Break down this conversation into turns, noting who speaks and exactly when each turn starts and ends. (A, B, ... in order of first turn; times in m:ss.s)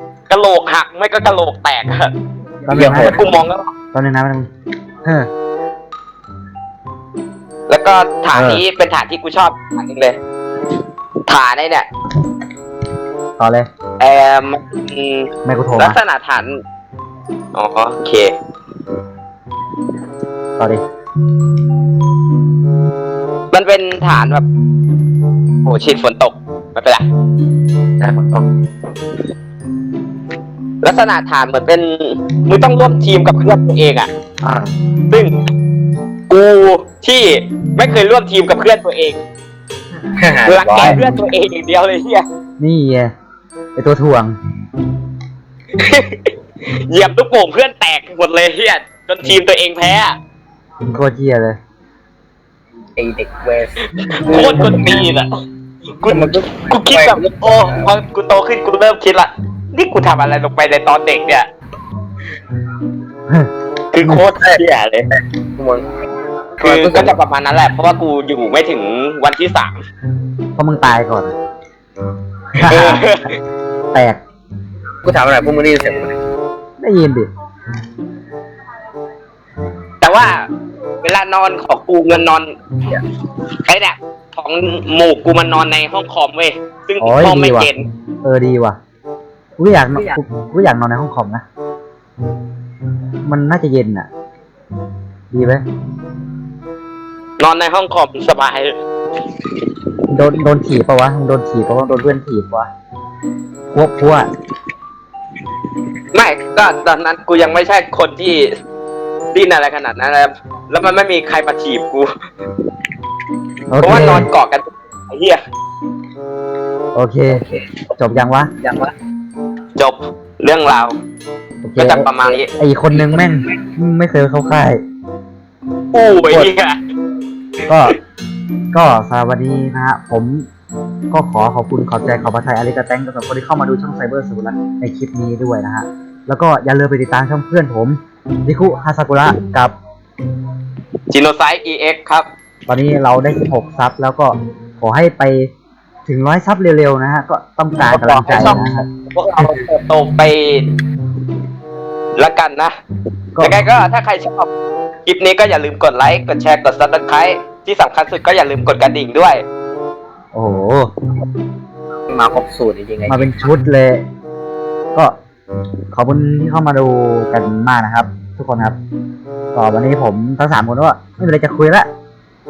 0:00.3-0:02.1 A
0:02.6-0:03.2 B
0:02.7-0:03.1 C
0:02.7-0:03.7 A
0:03.9-0:04.5 C
0:05.0-0:05.3 C
0:07.7-0:10.2 A
0:08.3-0:08.6 C
0:11.3-0:11.8 A
0:13.4-0:13.6 C
0:14.0-0:16.6 A
0:15.4-0:16.0 C
0:17.5-0:18.3 A
0:23.5-0:24.4 A
0:25.6-0:27.0 A
0:28.0-0:28.4 A
0:30.8-0:34.1 A
0:35.1-0:35.3 A
0:36.3-0:39.2 A
0:40.1-0:41.0 B
0:40.4-0:42.2 A
0:42.6-0:43.1 C
0:43.8-0:44.4 C
0:45.8-0:50.2 A
0:50.8-0:51.6 C
0:53.0-0:54.8 B
0:53.9-0:55.3 A
0:55.9-1:01.5 A
0:56.0-0:57.8 B
1:03.9-1:05.0 A
1:04.0-1:04.3 C
1:05.4-1:05.9 B
1:06.6-1:07.2 B
1:06.6-1:09.7 A
1:10.6-1:11.3 C
1:12.5-1:13.0 C
1:12.7-1:13.4 A
1:13.9-1:14.2 C
1:15.0-1:16.2 B
1:16.8-1:17.3 C
1:20.0-1:20.4 A
1:21.0-1:22.5 A
1:23.6-1:27.8 A
1:27.0-1:27.7 C
1:28.2-1:28.8 C
1:29.6-1:31.4 C
1:33.2-1:34.1 C
1:35.3-1:35.6 C
1:37.4-1:38.7 A
1:40.1-1:42.7 C
1:43.7-1:44.3 C
1:46.1-1:48.5 A
1:49.3-1:52.1 A
1:53.7-1:54.3 C
1:53.8-1:55.4 A
1:56.9-1:57.4 C
1:57.3-1:57.6 B
1:58.0-1:58.5 C
1:58.6-1:58.9 B
1:59.8-2:00.9 A
2:01.6-2:04.8 C
2:01.8-2:02.5 A
2:05.9-2:06.8 A
2:07.7-2:08.0 C
2:08.7-2:10.4 C
2:11.1-2:19.7 C
2:21.1-2:22.3 A
2:22.7-2:25.5 C
2:26.0-2:28.8 C
2:27.9-2:30.6 A
2:32.2-2:32.7 A
2:33.4-2:34.5 A
2:35.0-2:39.4 A
2:40.3-2:40.9 C
2:42.1-2:43.3 B
2:43.1-2:44.0 C
2:45.9-2:48.8 C
2:49.5-2:51.9 C